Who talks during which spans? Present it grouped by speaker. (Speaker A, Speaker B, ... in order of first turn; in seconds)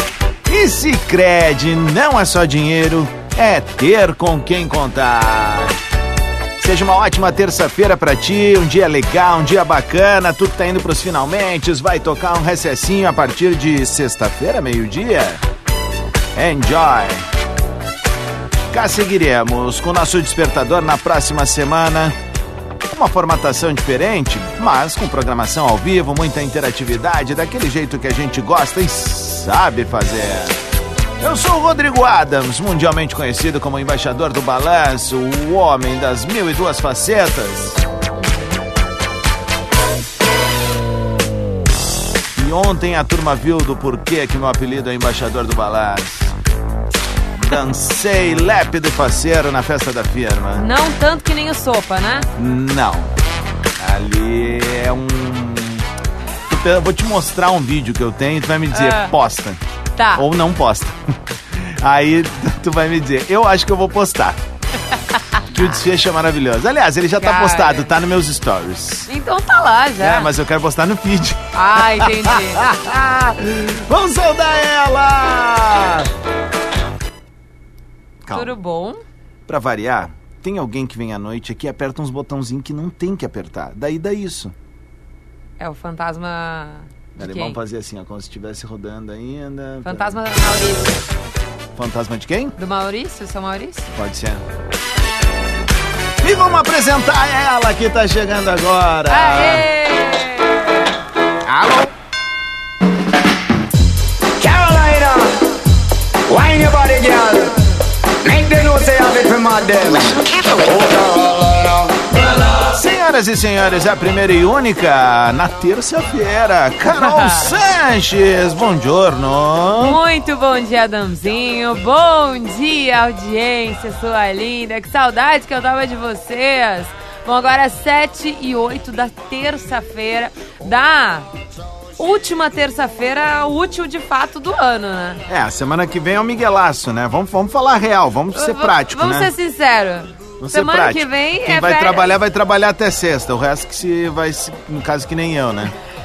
Speaker A: 0.5-5.8, 6.6-15.4, 16.4-17.3, 18.7-22.2, 22.9-30.6, 31.2-37.8, 42.4-46.4, 47.4-50.7, 52.4-53.1, 53.8-55.9, 56.5-59.6, 60.2-61.0, 61.5-64.4, 65.5-69.1, 70.0-76.1, 78.2-78.5, 79.5-84.5, 87.2-90.2, 91.8-92.5, 93.9-94.4, 96.2-99.6, 112.7-120.0, 135.3-139.3, 140.4-145.7
Speaker B: 50.6-52.3, 58.7-59.1, 60.0-60.2, 67.2-67.9, 69.1-70.3, 71.5-72.6, 78.3-79.0, 85.6-87.6, 89.8-91.1, 92.6-93.9, 99.1-100.9, 116.9-117.5, 119.8-131.3, 132.0-135.2, 138.3-142.1
Speaker C: 101.5-101.9, 104.4-105.3, 106.3-107.5, 108.2-112.0